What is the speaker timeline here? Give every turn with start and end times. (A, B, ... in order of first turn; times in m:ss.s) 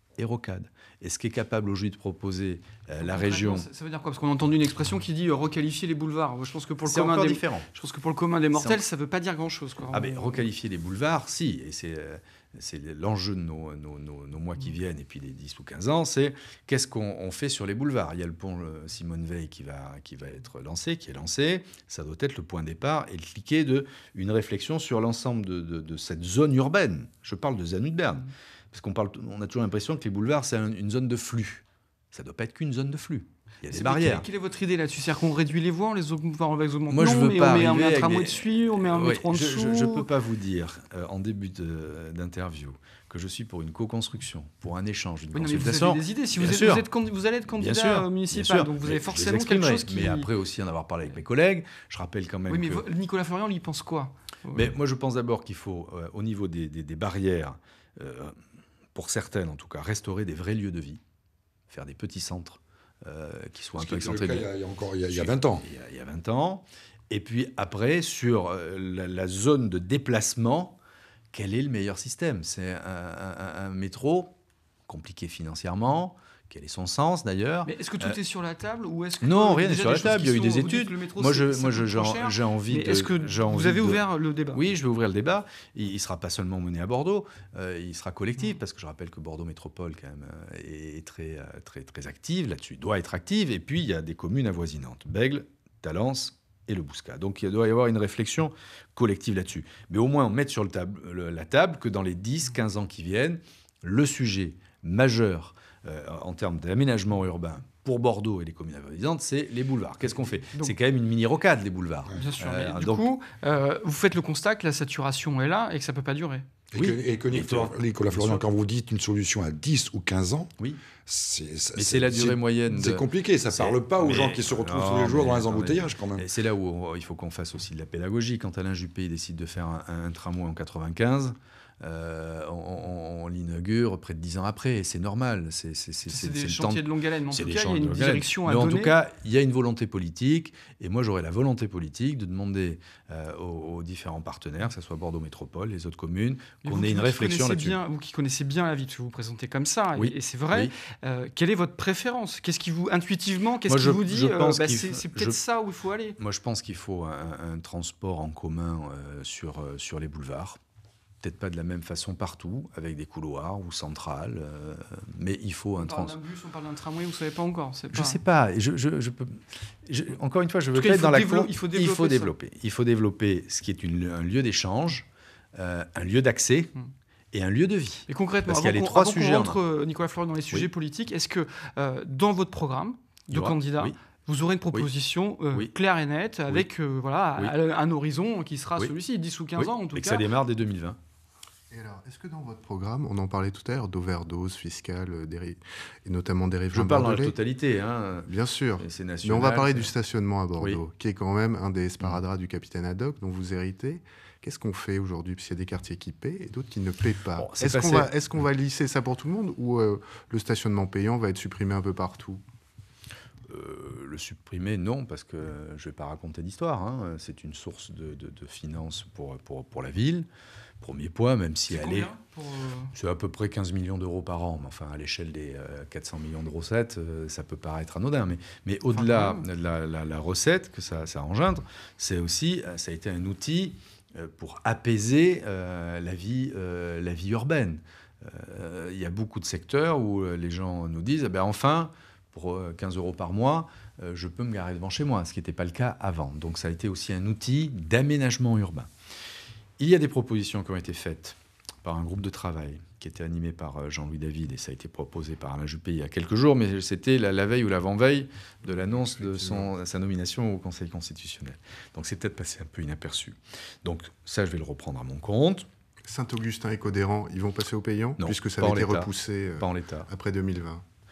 0:00.2-0:03.7 A
0:03.0-0:10.5 B
0:06.8-0:07.7 A
0:08.6-0:08.8 A
0:09.9-0:34.3 A
0:33.7-0:40.1 B
0:36.9-0:46.9 A
0:45.3-0:50.3 B
0:47.6-0:52.8 A
0:52.5-0:54.7 B
0:54.5-0:58.4 A
0:59.0-1:01.0 A
1:01.7-1:04.5 A
1:03.8-1:05.7 C
1:05.1-1:10.8 A
1:11.3-1:14.3 A
1:14.9-1:18.2 A
1:17.7-1:24.6 B
1:19.2-1:53.1 A
1:52.1-1:56.5 B
1:56.7-2:00.5 C
1:56.8-1:58.5 A
2:01.1-2:06.3 C
2:01.8-2:27.8 A
2:16.1-2:19.0 B
2:26.6-2:36.2 B
2:29.9-2:30.7 A
2:33.7-2:35.4 A
2:36.2-2:40.6 A
2:41.2-2:46.2 A
2:45.8-2:48.2 B
2:47.9-2:56.7 A
2:50.7-2:52.3 B
2:57.3-2:59.6 A
2:58.1-3:10.2 B
3:03.3-3:04.0 A
3:09.6-3:11.0 A
3:11.7-3:17.4 D
3:16.7-3:19.9 A
3:18.3-3:32.4 D
3:27.4-3:28.1 A
3:33.5-3:40.3 A
3:40.8-3:42.1 A
3:41.7-3:42.9 B
3:42.9-4:08.9 A
3:48.9-3:49.4 B
4:09.8-4:25.7 A
4:18.7-4:19.7 D
4:26.1-4:30.8 D
4:28.2-4:30.1 A